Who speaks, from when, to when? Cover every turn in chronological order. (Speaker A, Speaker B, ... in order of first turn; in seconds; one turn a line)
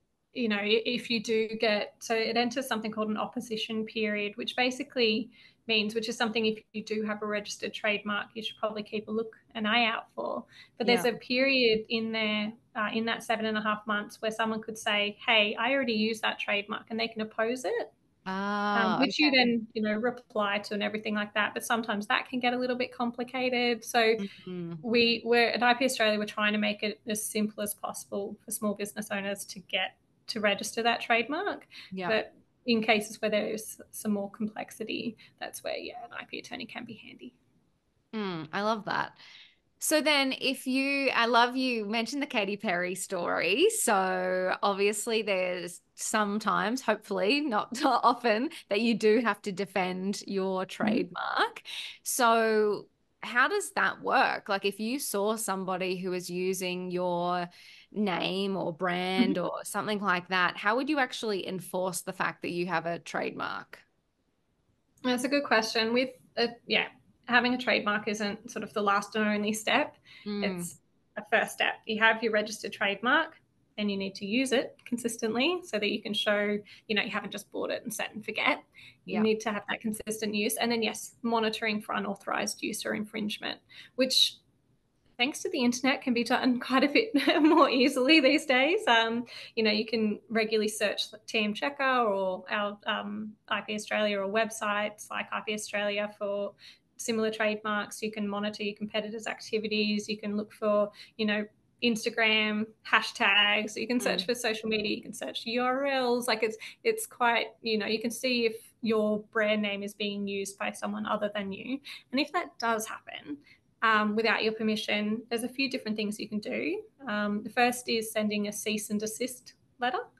Speaker A: 0.3-17.9
Speaker B: 10.8-11.1
Speaker B: 18.2-19.4
Speaker A: 18.7-24.2
Speaker B: 24.2-24.8
Speaker A: 24.8-37.3
Speaker B: 38.1-39.2
Speaker B: 39.8-63.8
Speaker A: 65.0-84.4
Speaker B: 70.2-70.7
Speaker A: 85.2-120.0
Speaker B: 104.0-104.3